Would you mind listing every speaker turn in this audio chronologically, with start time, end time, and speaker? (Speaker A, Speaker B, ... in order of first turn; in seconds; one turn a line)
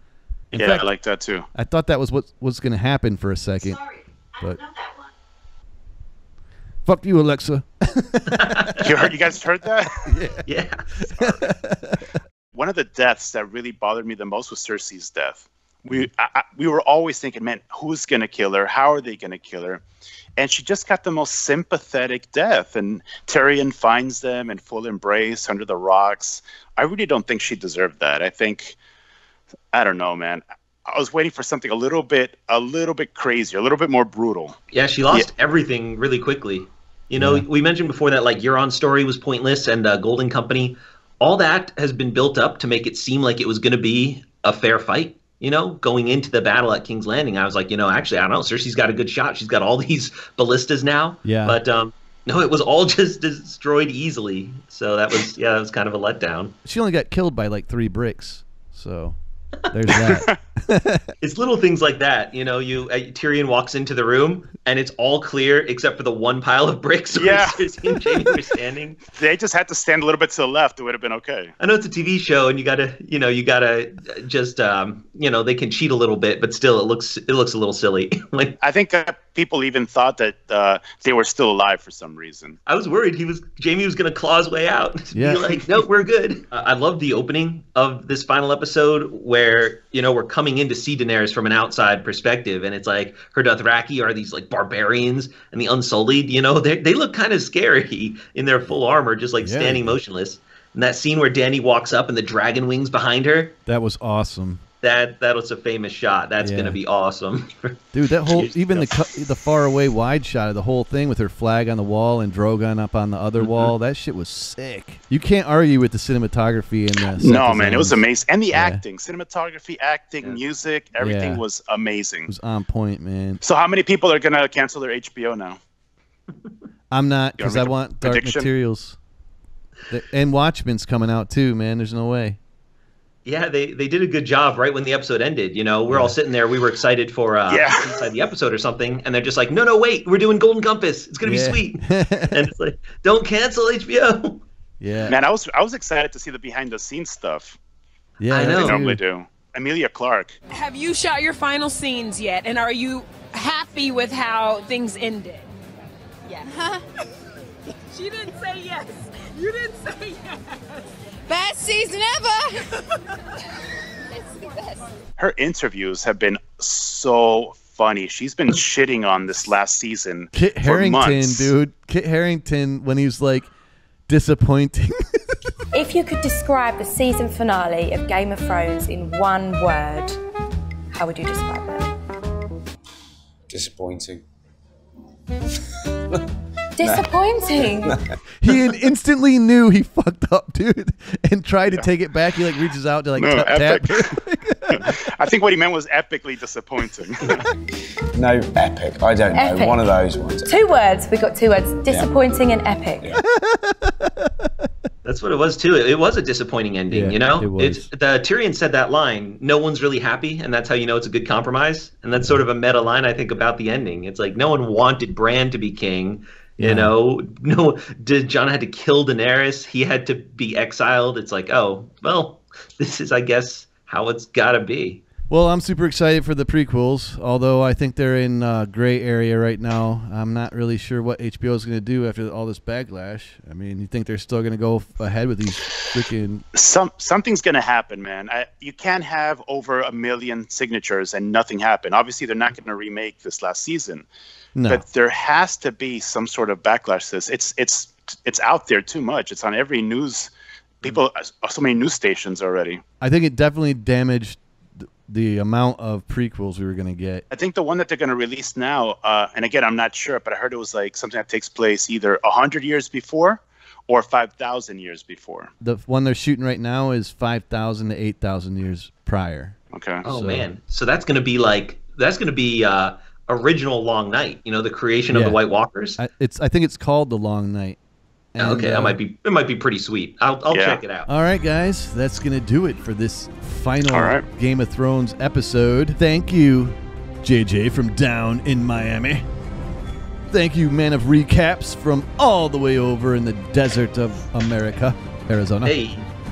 Speaker A: 0.5-0.9
Speaker B: 0.5-1.5
Speaker A: 1.5-3.9
Speaker A: 4.4-4.6
Speaker A: 6.9-8.8
Speaker C: 8.3-8.9
Speaker B: 8.8-10.0
Speaker A: 10.0-10.5
Speaker C: 10.5-11.5
Speaker A: 11.0-12.0
Speaker B: 12.5-19.8
Speaker B: 20.4-28.8
Speaker B: 29.7-34.6
Speaker C: 34.7-56.5
Speaker A: 37.2-37.5
Speaker A: 51.2-51.6
Speaker A: 56.6-59.2
Speaker A: 59.7-61.1
Speaker B: 59.9-60.4
Speaker C: 61.2-69.0
Speaker B: 67.1-67.6
Speaker B: 69.1-71.5
Speaker C: 71.6-78.6
Speaker B: 78.6-82.6
Speaker C: 82.7-103.6
Speaker A: 85.1-85.6
Speaker A: 99.4-100.0
Speaker A: 103.7-104.6
Speaker C: 104.8-107.8
Speaker A: 106.4-106.8
Speaker A: 107.9-118.8
Speaker C: 108.3-108.8
Speaker C: 113.4-113.7
Speaker B: 117.1-122.3
Speaker A: 121.0-121.4
Speaker A: 122.3-123.4
Speaker B: 123.4-125.6
Speaker A: 126.9-129.0
Speaker B: 127.4-128.5
Speaker A: 129.9-132.4
Speaker C: 133.2-144.4
Speaker A: 135.9-136.1
Speaker B: 137.5-138.0
Speaker A: 141.2-142.5
Speaker A: 144.8-145.2
Speaker B: 145.1-147.6
Speaker A: 148.2-149.0
Speaker C: 148.3-148.8
Speaker B: 148.5-150.4
Speaker D: 150.5-155.5
Speaker D: 156.3-156.9
Speaker D: 157.7-163.0
Speaker D: 164.1-164.9
Speaker B: 165.2-171.5
Speaker A: 170.3-173.5
Speaker A: 174.1-175.0
Speaker E: 175.7-180.2
Speaker E: 180.9-181.9
Speaker F: 183.5-184.2
Speaker E: 186.8-188.0
Speaker F: 186.8-187.1
Speaker F: 187.6-188.5
Speaker A: 188.4-195.0
Speaker B: 193.2-194.2
Speaker B: 194.7-197.4
Speaker F: 197.3-200.6
Speaker E: 199.3-203.1
Speaker F: 201.9-202.1
Speaker A: 203.2-204.3
Speaker C: 205.1-225.0
Speaker A: 206.9-207.9
Speaker A: 216.6-216.9
Speaker A: 225.3-236.5
Speaker B: 236.5-244.1
Speaker A: 244.6-244.8
Speaker B: 244.7-252.8
Speaker A: 253.0-257.2
Speaker B: 257.3-265.5
Speaker A: 265.6-270.5
Speaker B: 269.7-270.0
Speaker C: 270.0-276.0
Speaker A: 275.1-275.4
Speaker A: 276.0-277.8
Speaker A: 278.4-279.0
Speaker C: 278.4-281.1
Speaker B: 280.5-280.8
Speaker A: 281.1-289.3
Speaker B: 283.9-284.2
Speaker A: 290.3-295.8
Speaker C: 295.7-296.1